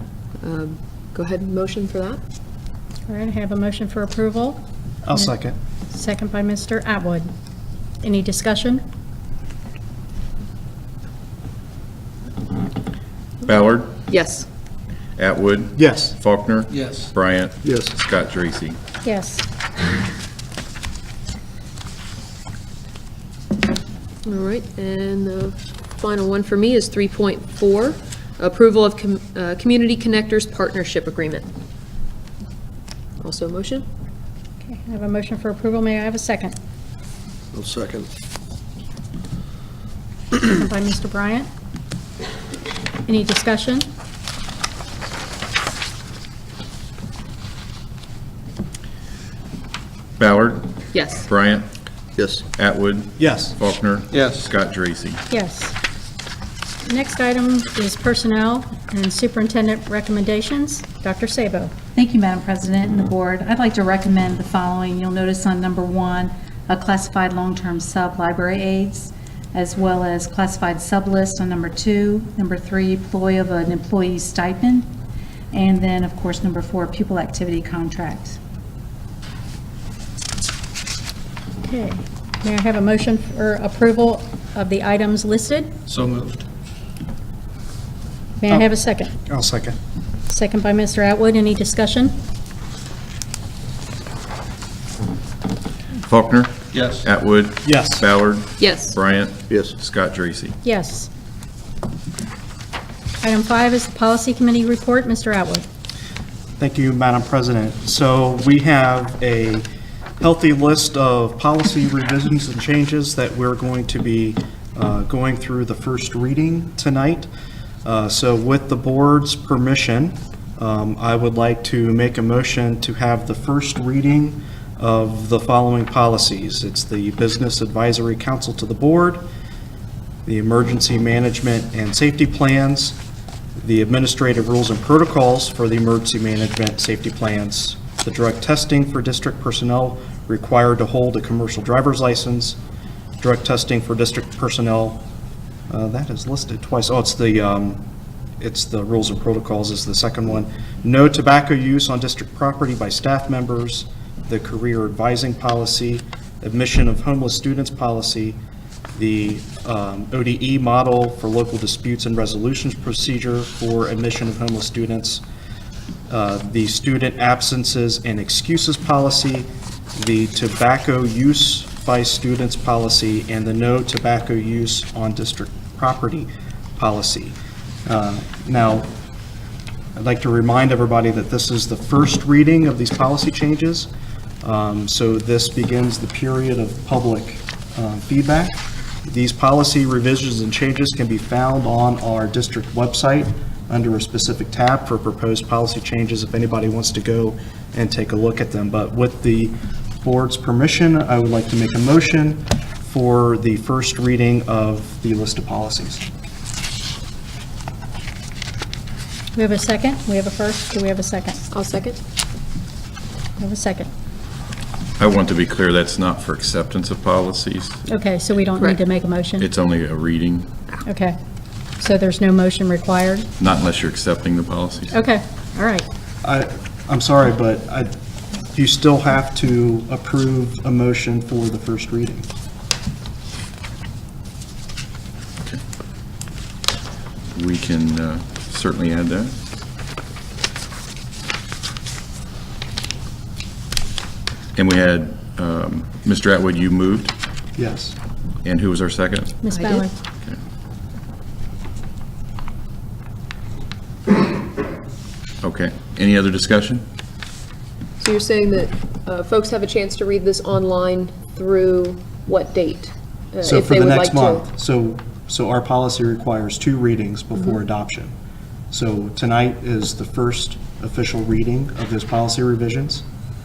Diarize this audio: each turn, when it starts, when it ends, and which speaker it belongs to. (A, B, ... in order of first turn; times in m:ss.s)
0:00.4-0:02.2 A
0:03.1-0:05.3 B
0:05.0-0:05.6 C
0:05.9-0:07.3 B
0:08.0-0:08.8 B
0:13.4-0:14.0 D
0:14.1-0:14.5 A
0:15.2-0:18.8 D
0:15.7-0:16.2 C
0:16.7-0:17.1 E
0:17.6-0:17.9 C
0:19.0-0:19.4 B
0:24.2-0:31.5 A
0:33.2-0:33.8 A
0:34.6-0:36.5 B
0:37.5-0:38.1 E
0:40.4-0:41.5 B
0:43.0-0:43.9 B
0:50.2-0:51.7 D
0:50.9-0:51.3 A
0:52.2-0:52.4 E
0:52.5-0:55.2 D
0:53.2-0:53.5 C
0:54.1-0:54.5 E
0:55.3-0:55.7 B
0:56.8-1:01.7 B
1:01.9-1:14.9 F
1:15.5-1:18.4 F
1:21.6-1:25.7 B
1:25.9-1:26.4 E
1:28.4-1:29.2 B
1:29.3-1:29.8 C
1:30.3-1:32.2 B
1:36.0-1:40.5 D
1:36.7-1:37.1 E
1:37.6-1:38.0 C
1:38.6-1:39.0 A
1:39.5-1:39.7 E
1:40.6-1:41.1 B
1:43.2-1:45.6 B
1:46.6-1:49.7 C
1:50.2-1:57.3 C
1:57.8-2:09.2 C
2:10.2-2:13.0 C
2:13.6-2:22.6 C
2:23.2-2:25.0 C
2:25.7-2:27.8 C
2:28.4-2:38.4 C
2:38.9-2:45.2 C
2:46.1-2:58.9 C
3:00.0-3:03.9 C
3:04.4-3:26.0 C
3:29.3-3:31.4 B
3:31.5-3:32.0 A
3:33.4-3:33.9 B
3:35.0-3:37.8 D
3:37.9-3:39.5 B
3:39.4-3:40.5 D
3:40.8-3:41.2 B
3:41.8-3:43.3 B
3:43.4-3:45.0 D
3:44.9-3:45.8 B
3:46.2-3:47.9 C
3:48.5-3:52.3 C
3:57.3-3:59.3 D
4:04.6-4:07.1 D
4:07.6-4:08.0 C
4:08.4-4:09.4 D
4:09.4-4:09.9 B
4:09.5-4:09.9 A
4:15.4-4:16.8 D
4:18.0-4:24.5 A
4:23.4-4:28.1 C
4:28.7-4:33.0 C